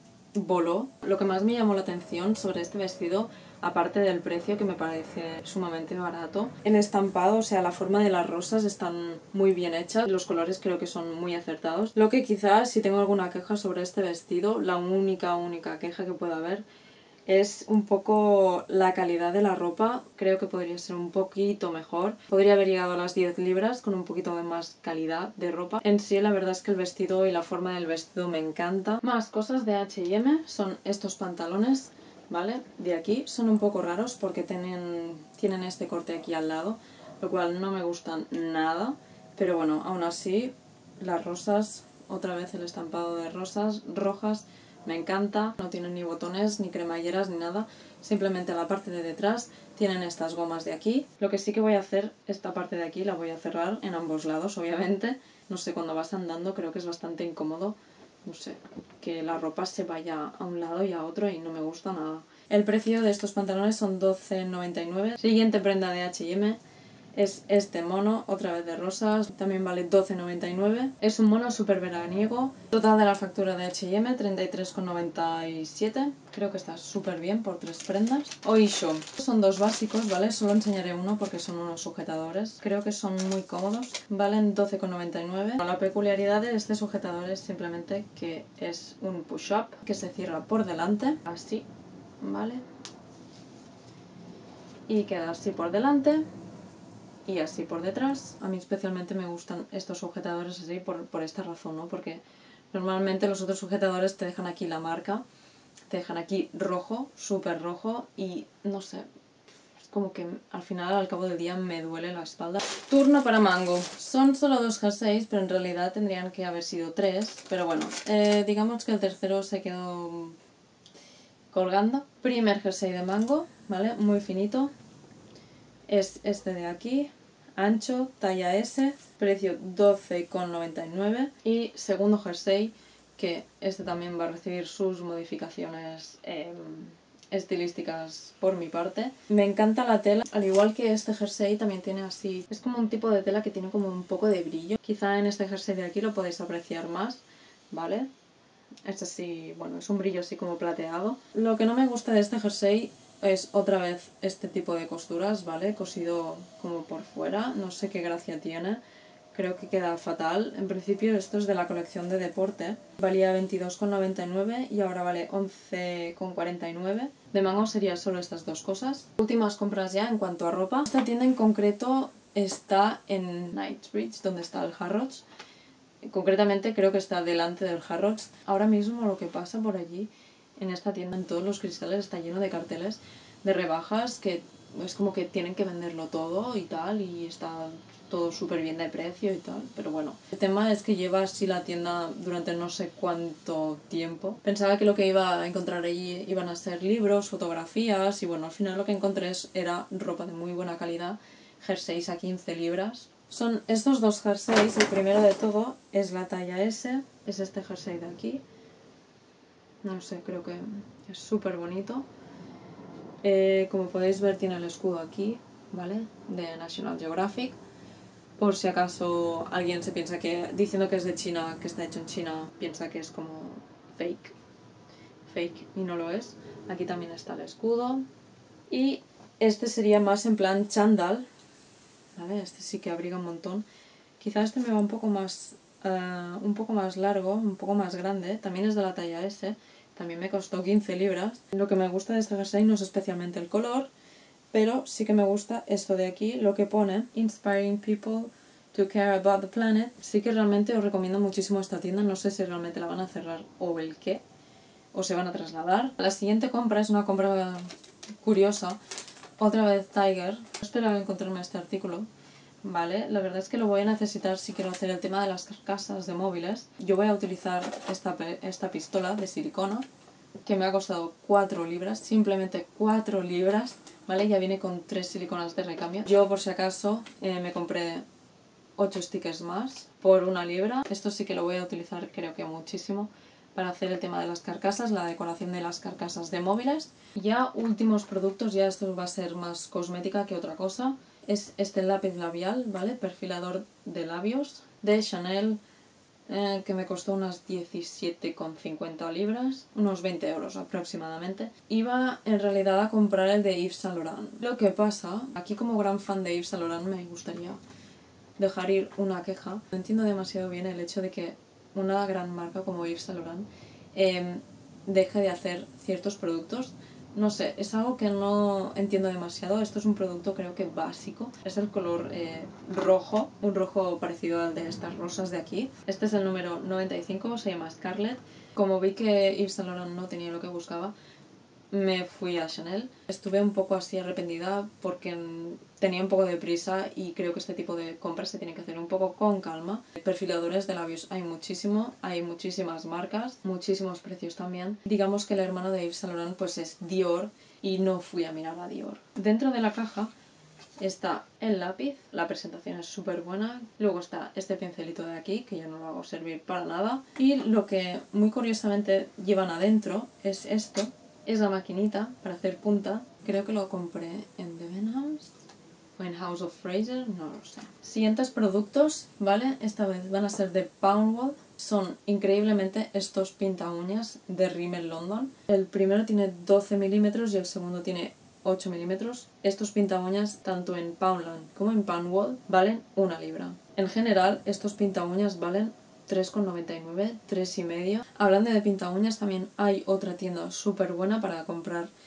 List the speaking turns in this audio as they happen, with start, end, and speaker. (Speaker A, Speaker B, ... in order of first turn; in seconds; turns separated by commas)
Speaker A: 0.3-16.6, Speaker A: 17.3-66.6, Speaker A: 67.1-91.7, Speaker A: 92.2-92.6, Speaker A: 94.9-96.2, Speaker A: 97.2-105.2, Speaker A: 105.9-109.0, Speaker A: 109.8-120.4, Speaker A: 121.5-124.7, Speaker A: 125.9-148.1, Speaker A: 148.8-158.8, Speaker A: 159.3-175.2, Speaker A: 176.0-208.4, Speaker A: 209.8-212.1, Speaker A: 213.2-217.6, Speaker A: 218.4-224.3, Speaker A: 225.2-228.0, Speaker A: 228.7-231.2, Speaker A: 232.2-233.7, Speaker A: 234.2-243.9, Speaker A: 244.5-254.2, Speaker A: 254.9-257.7, Speaker A: 258.2-258.8, Speaker A: 259.4-262.1, Speaker A: 262.6-269.9, Speaker A: 270.4-278.0, Speaker A: 278.8-295.6, Speaker A: 296.3-307.6, Speaker A: 308.4-330.9, Speaker A: 331.7-350.1, Speaker A: 350.8-365.4, Speaker A: 366.0-391.9